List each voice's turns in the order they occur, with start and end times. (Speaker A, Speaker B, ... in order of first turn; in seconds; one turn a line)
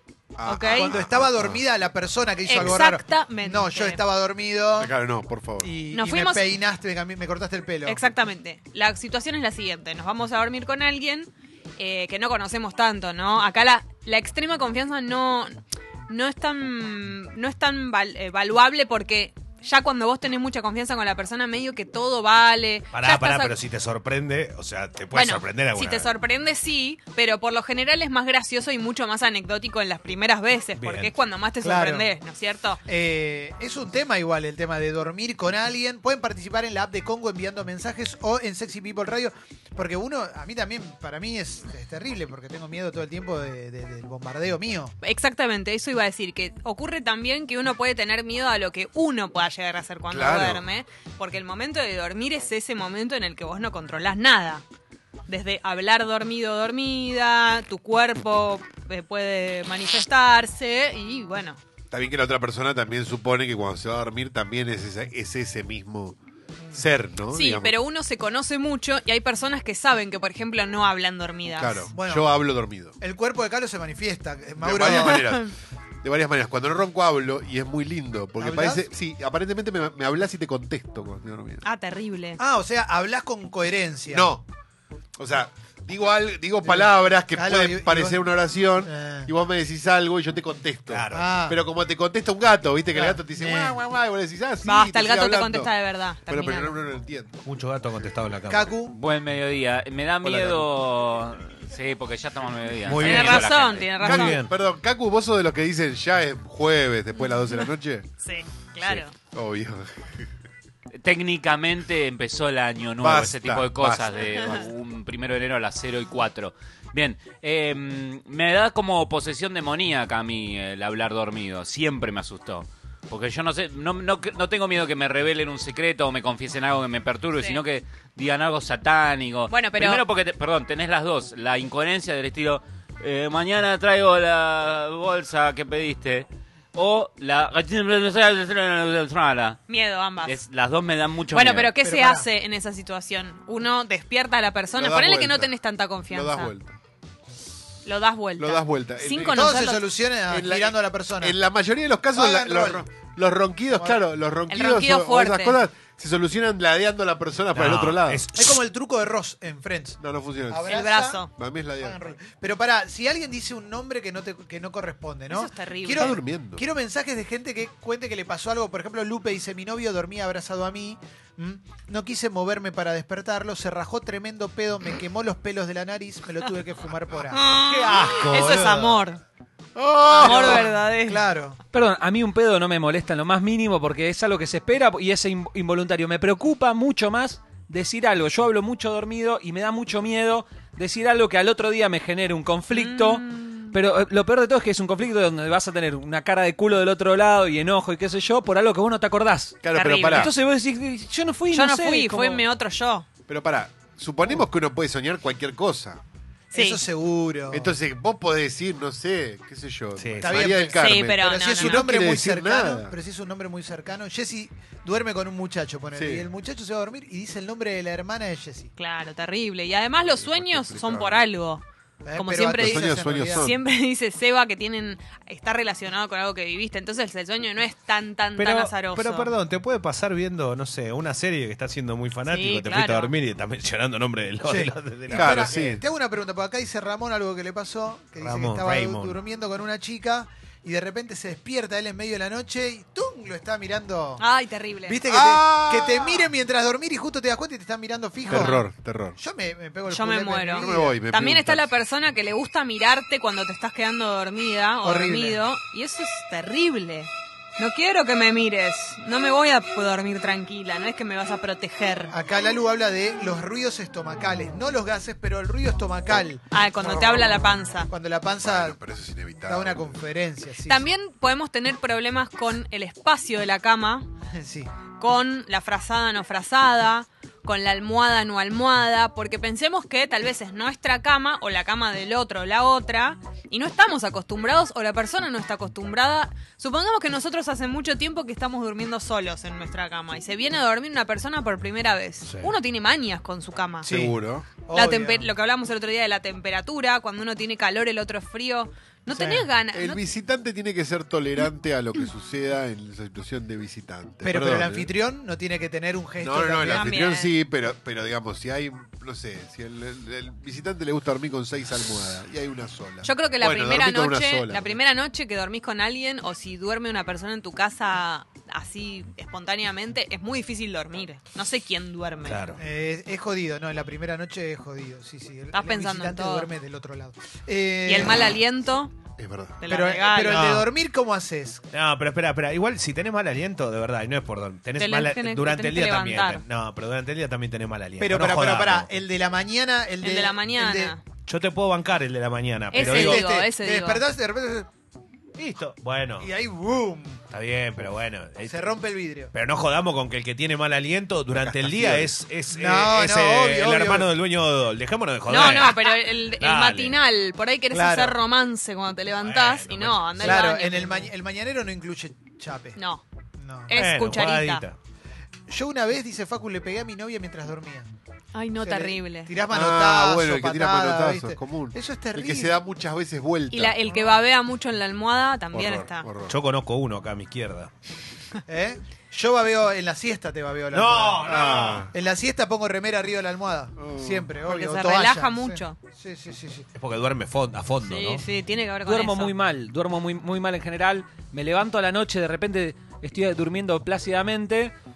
Speaker A: 0.4-1.6
Speaker B: 0.5-0.9
Speaker C: 0.7-4.9
Speaker B: 2.5-4.0
Speaker A: 4.8-5.7
Speaker C: 5.6-8.0
Speaker B: 5.9-6.5
Speaker B: 7.8-15.6
Speaker B: 16.1-23.5
Speaker D: 22.9-26.1
Speaker B: 25.1-32.8
Speaker D: 30.8-31.1
Speaker C: 31.6-32.1
Speaker C: 32.9-44.9
Speaker B: 45.0-54.6
Speaker A: 50.1-50.7
Speaker B: 55.3-61.6
Speaker A: 61.9-66.2
Speaker A: 66.8-67.8
Speaker B: 67.3-71.9
Speaker A: 71.6-73.0
Speaker C: 71.9-72.4
Speaker C: 73.0-75.2
Speaker A: 74.6-81.6
Speaker B: 74.8-75.5
Speaker C: 78.4-78.8
Speaker B: 81.6-82.4
Speaker C: 82.4-84.3
Speaker A: 84.1-84.5
Speaker A: 85.2-95.7
Speaker C: 86.6-88.2
Speaker C: 88.8-89.3
Speaker D: 90.9-91.3
Speaker C: 91.1-91.6
Speaker C: 92.9-93.8
Speaker B: 94.7-96.7
Speaker A: 96.3-97.4
Speaker D: 97.5-98.7
Speaker C: 98.5-99.0
Speaker E: 98.9-103.9
Speaker A: 100.2-100.7
Speaker D: 102.8-104.5
Speaker B: 103.0-104.4
Speaker A: 104.0-108.1
Speaker B: 107.2-107.7
Speaker B: 108.2-109.1
Speaker A: 109.3-110.2
Speaker E: 111.0-139.6
Speaker A: 113.0-114.7
Speaker B: 114.3-114.7
Speaker B: 127.3-127.6
Speaker B: 129.5-130.1
Speaker B: 139.7-140.4
Speaker E: 140.2-141.8
Speaker B: 141.3-146.5
Speaker C: 141.8-142.3
Speaker A: 144.8-145.5
Speaker A: 146.1-146.8
Speaker B: 147.8-149.9
Speaker A: 148.4-149.6
Speaker C: 149.3-151.4
Speaker A: 150.3-158.2
Speaker C: 152.1-152.8
Speaker C: 153.7-154.0
Speaker B: 154.5-155.6
Speaker D: 157.5-158.6
Speaker C: 158.3-161.2
Speaker A: 160.0-160.8
Speaker B: 160.7-161.3
Speaker A: 161.3-162.1
Speaker C: 161.8-177.4
Speaker B: 165.3-166.1
Speaker A: 166.0-166.6
Speaker B: 177.3-179.2
Speaker D: 177.6-179.0
Speaker C: 178.4-178.8
Speaker A: 179.8-180.6
Speaker C: 180.1-181.6
Speaker B: 180.2-181.2
Speaker F: 181.7-202.4
Speaker B: 192.7-193.7
Speaker A: 199.6-200.3
Speaker B: 199.7-200.3
Speaker B: 201.5-203.1
Speaker A: 203.3-206.0
Speaker B: 206.5-206.8
Speaker C: 206.5-207.8
Speaker A: 207.5-212.9
Speaker D: 210.0-210.5
Speaker C: 210.2-218.7
Speaker B: 210.7-211.8
Speaker A: 215.9-216.2
Speaker B: 218.8-221.6
Speaker A: 220.1-221.2
Speaker C: 222.0-223.5
Speaker B: 222.2-229.3
Speaker A: 222.5-223.6
Speaker D: 228.4-235.6
Speaker B: 232.3-233.1
Speaker C: 234.4-244.2
Speaker A: 235.1-235.8
Speaker D: 238.2-239.2
Speaker B: 244.2-245.0
Speaker C: 244.9-248.7
Speaker A: 245.1-246.3
Speaker A: 248.3-249.2
Speaker C: 249.2-251.0
Speaker B: 249.9-262.1
Speaker A: 250.6-251.7
Speaker C: 254.8-255.4
Speaker C: 262.1-268.8
Speaker B: 266.5-267.9
Speaker A: 268.4-270.0
Speaker C: 269.4-270.9
Speaker B: 270.7-274.1
Speaker C: 274.3-274.7
Speaker B: 275.0-293.9
Speaker D: 292.2-292.5
Speaker C: 293.8-295.3
Speaker A: 293.9-294.5
Speaker B: 294.7-300.0
Speaker C: 299.1-299.5
Speaker A: 299.7-304.9
Speaker C: 304.2-307.0
Speaker A: 306.2-314.8
Speaker B: 306.7-307.3
Speaker B: 313.0-322.4
Speaker D: 322.2-322.6
Speaker C: 322.6-328.4
Speaker B: 325.5-326.5
Speaker B: 327.9-328.9
Speaker A: 329.2-329.6
Speaker B: 329.6-330.4
Speaker C: 329.7-331.6
Speaker D: 330.3-330.7
Speaker D: 331.7-338.9
Speaker B: 334.8-336.4
Speaker C: 338.0-340.9
Speaker B: 340.0-341.0
Speaker D: 341.3-343.3
Speaker B: 342.7-344.0
Speaker C: 342.7-344.7
Speaker D: 345.4-346.3
Speaker C: 346.2-347.2
Speaker D: 347.3-348.7
Speaker C: 348.4-349.3
Speaker D: 349.3-357.0
Speaker A: 351.4-352.1
Speaker C: 352.5-354.1
Speaker B: 355.3-361.1
Speaker C: 357.7-358.2
Speaker D: 359.2-360.5
Speaker C: 360.2-362.8
Speaker B: 362.8-363.0
Speaker C: 363.4-363.8
Speaker B: 363.7-364.6
Speaker D: 363.7-364.8
Speaker C: 365.5-367.9
Speaker B: 368.3-369.3
Speaker C: 368.6-372.6
Speaker A: 369.5-373.8
Speaker B: 373.5-376.1
Speaker C: 373.9-374.2
Speaker A: 375.5-376.4
Speaker D: 376.3-377.7
Speaker C: 378.5-386.7
Speaker D: 380.7-381.9
Speaker A: 381.2-381.9
Speaker A: 383.8-384.3
Speaker B: 384.5-385.8
Speaker D: 386.8-388.2
Speaker B: 387.8-389.3
Speaker F: 388.9-394.7